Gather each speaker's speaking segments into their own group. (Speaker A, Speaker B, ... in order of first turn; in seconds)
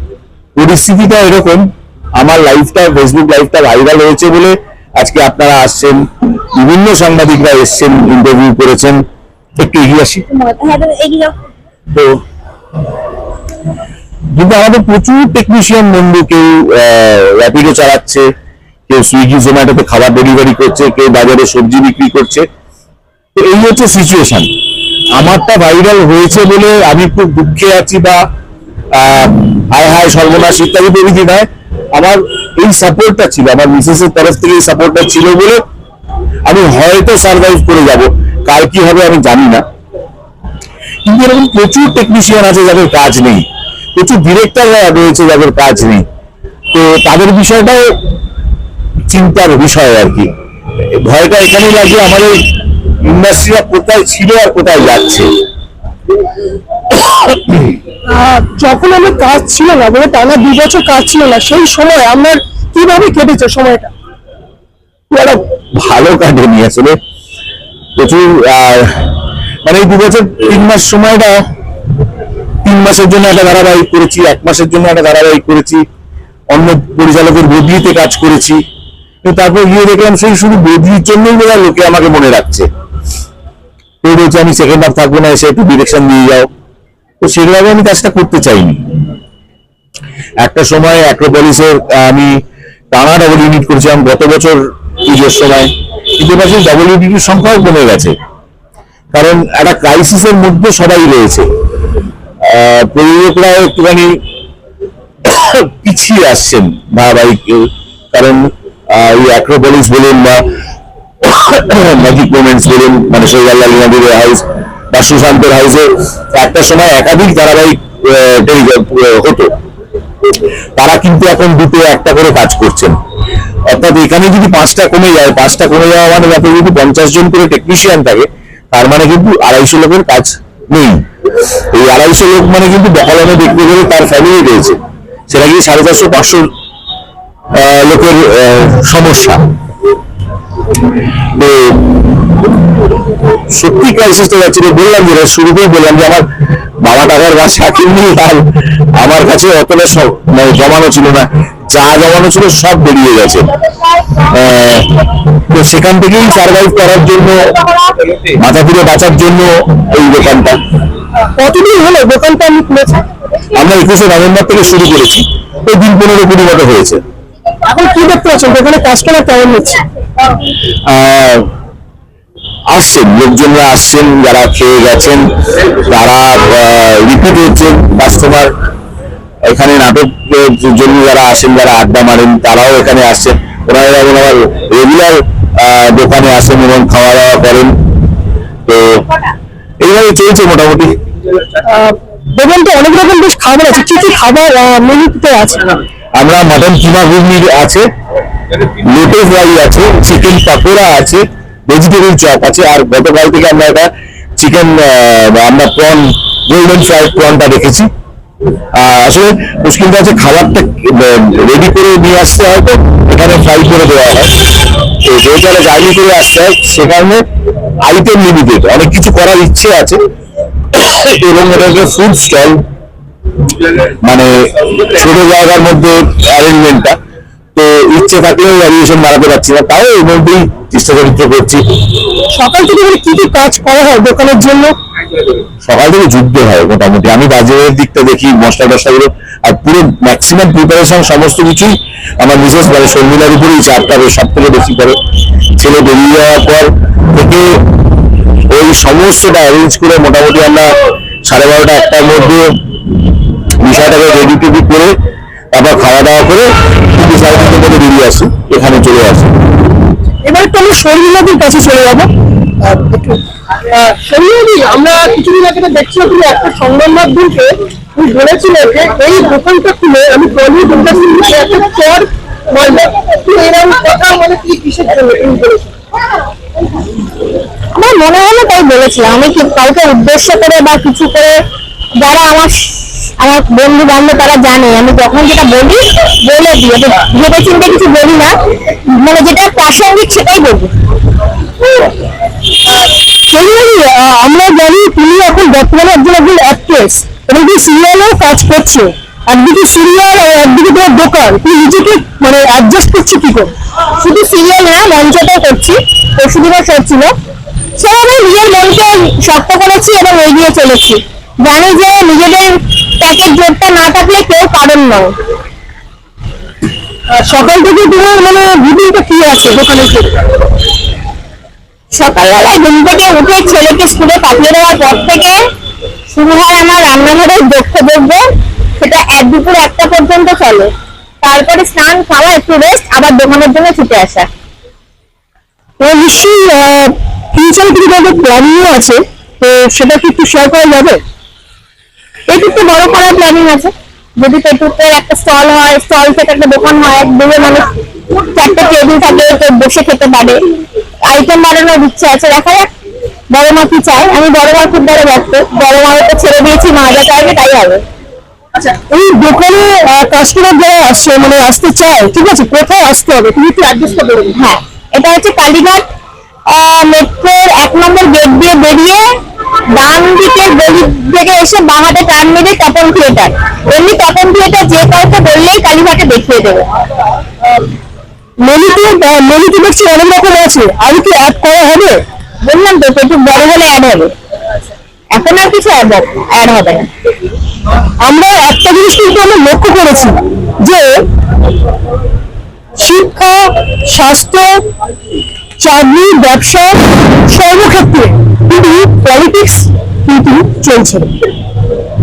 Speaker A: 0.6-9.0, 9.6-10.2, 11.9-12.2, 14.3-18.3, 18.9-22.5, 23.3-24.5, 25.1-28.2, 28.9-35.6, 36.5-39.6, 41.0-46.0, 46.7-47.9, 49.1-50.3, 50.9-55.3, 57.2-57.6, 65.1-67.0, 68.0-71.4, 72.6-75.8, 76.5-78.6, 79.2-82.7, 84.0-86.5, 87.2-89.1, 90.4-92.3, 92.9-98.1, 99.1-101.5, 102.4-104.2, 105.2-110.5, 111.2-119.5, 120.8-122.9, 123.7-131.0, 131.7-134.8, 135.3-136.5, 137.5-139.4, 141.3-142.0, 143.5-146.3, 146.8-153.5, 154.2-157.6, 158.4-160.6, 163.5-167.0, 170.9-171.5, 172.7-178.5, 179.5-187.7, 188.7-189.1, 189.8-190.9, 196.2-197.9, 198.8-207.9, 208.8-217.2, 217.8-220.0, 220.7-222.6, 224.0-227.0, 227.6-231.6, 235.6-244.9, 245.6-247.6, 248.5-252.6, 253.6-254.9, 255.5-259.3
Speaker B: 10.3-11.4, 277.8-281.4, 282.0-288.3, 288.9-290.7, 304.0-307.1, 307.8-315.1, 321.9-325.4, 326.1-328.2, 328.8-330.7, 331.2-334.3, 342.3-347.7, 348.4-350.4, 351.1-352.7, 353.3-357.8, 364.4-365.9, 366.5-369.1, 369.8-376.7, 382.4-384.1, 385.1-386.9
Speaker C: 58.1-63.9, 161.3-163.0, 167.7-169.8, 191.7-195.6, 232.3-234.8, 260.2-262.1, 262.6-275.7, 293.3-303.5, 317.1-320.2, 335.8-341.0, 358.6-364.4, 378.4-382.0, 388.0-391.0, 392.8-394.5, 395.6-401.2